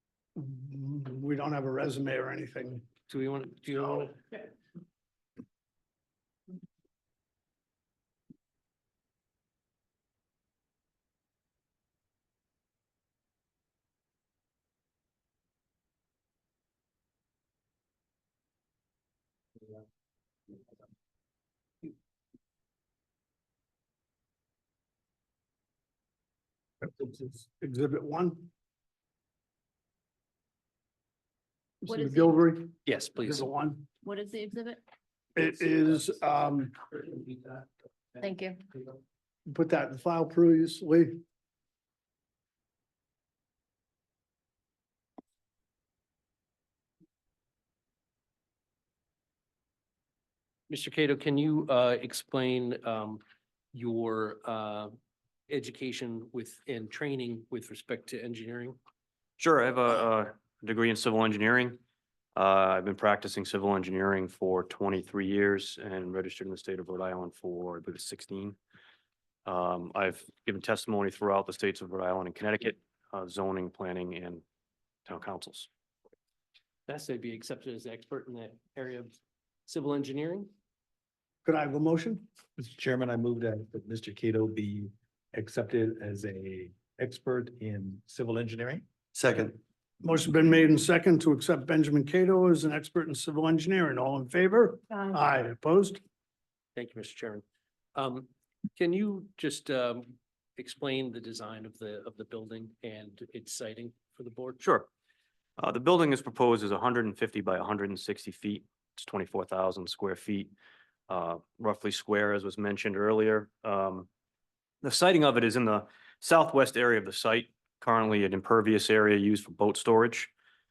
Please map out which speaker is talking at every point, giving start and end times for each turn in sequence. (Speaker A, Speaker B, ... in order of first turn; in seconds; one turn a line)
Speaker A: 0.3-2.9
Speaker B: 3.0-4.2
Speaker A: 26.8-28.5
Speaker A: 31.8-33.9
Speaker C: 31.9-32.5
Speaker B: 32.8-33.5
Speaker C: 34.0-34.8
Speaker A: 35.4-36.7
Speaker B: 36.9-37.6
Speaker C: 38.2-38.6
Speaker A: 39.5-41.2
Speaker B: 50.7-53.2
Speaker B: 53.7-54.9
Speaker B: 55.5-58.8
Speaker D: 59.4-61.8
Speaker D: 62.3-68.6
Speaker D: 69.4-74.4
Speaker D: 75.0-75.7
Speaker B: 76.9-79.1
Speaker B: 79.7-80.5
Speaker A: 81.4-82.2
Speaker E: 82.6-89.5
Speaker A: 89.2-96.0
Speaker B: 96.7-97.4
Speaker B: 97.9-104.7
Speaker D: 104.6-104.9
Speaker D: 105.6-110.5
Speaker D: 111.1-114.1
Speaker D: 114.8-120.3